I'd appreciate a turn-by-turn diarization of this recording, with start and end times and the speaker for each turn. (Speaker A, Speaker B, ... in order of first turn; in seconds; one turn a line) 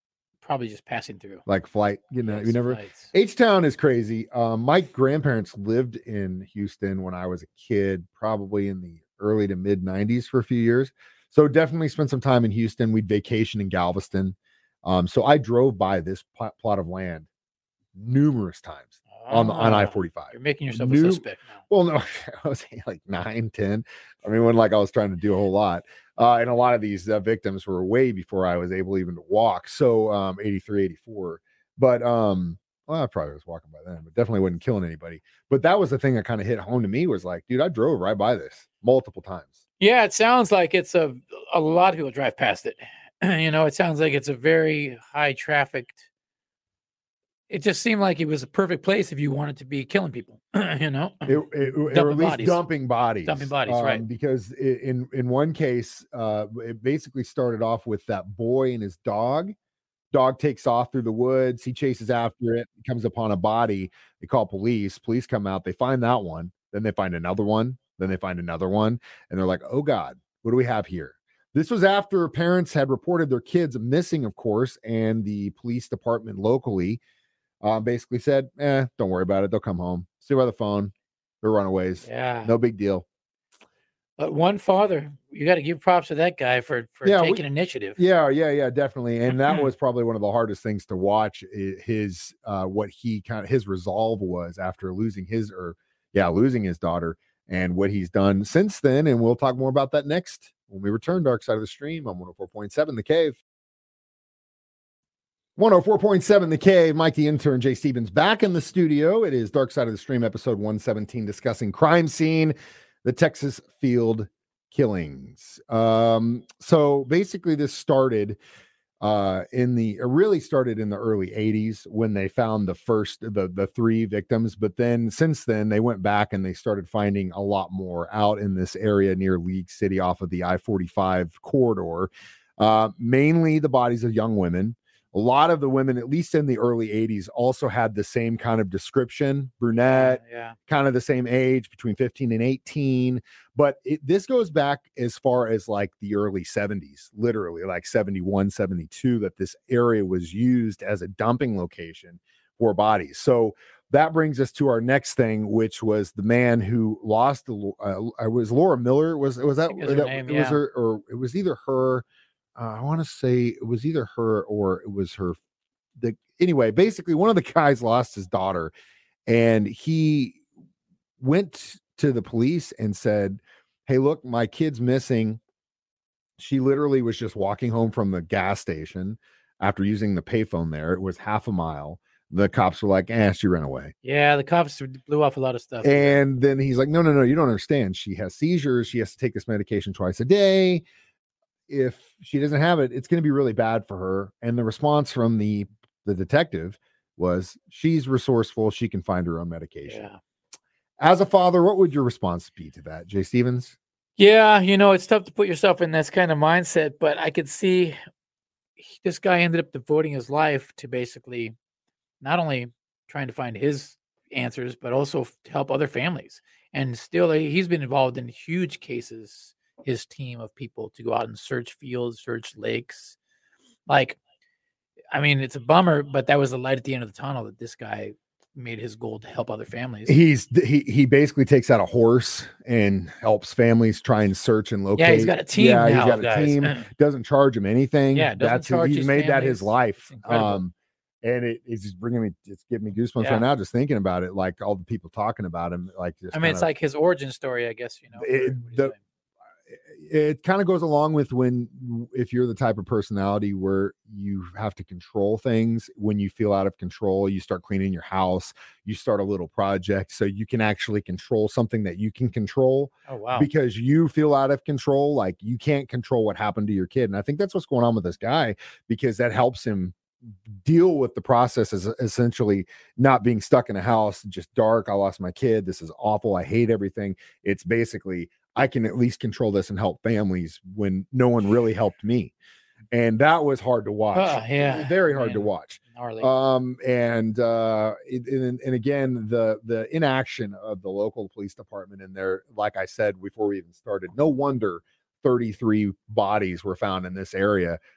Speaker A: 0.4-1.4
Speaker B: 1.5-17.3
Speaker A: 2.2-3.1
Speaker B: 18.0-39.6
Speaker A: 19.1-21.6
Speaker A: 39.8-46.0
Speaker A: 47.5-52.6
Speaker B: 51.3-59.5
Speaker A: 53.2-54.0
Speaker B: 60.1-77.0
Speaker B: 77.6-83.0
Speaker A: 82.0-82.6
Speaker A: 84.2-88.0
Speaker B: 87.0-87.4
Speaker B: 88.0-103.4
Speaker B: 105.6-118.4
Speaker B: 119.0-162.0
Speaker A: 139.9-140.6
Speaker A: 159.7-160.6
Speaker B: 162.6-165.4
Speaker B: 166.0-168.7
Speaker B: 169.3-170.4
Speaker B: 171.2-175.4
Speaker B: 176.4-183.9
Speaker A: 184.0-186.2
Speaker B: 185.8-190.8
Speaker B: 191.7-200.0
Speaker A: 199.9-200.2
Speaker B: 201.0-203.8
Speaker A: 204.2-208.0
Speaker A: 208.8-211.6
Speaker A: 212.2-223.2
Speaker A: 223.9-224.2
Speaker A: 225.1-230.2
Speaker B: 230.1-246.7
Speaker A: 235.0-236.9
Speaker A: 238.1-240.6
Speaker A: 243.2-243.5
Speaker A: 246.3-249.0
Speaker B: 248.2-248.9
Speaker B: 249.9-270.0
Speaker A: 263.1-263.5
Speaker B: 270.6-282.3
Speaker B: 282.9-297.8
Speaker A: 284.1-286.3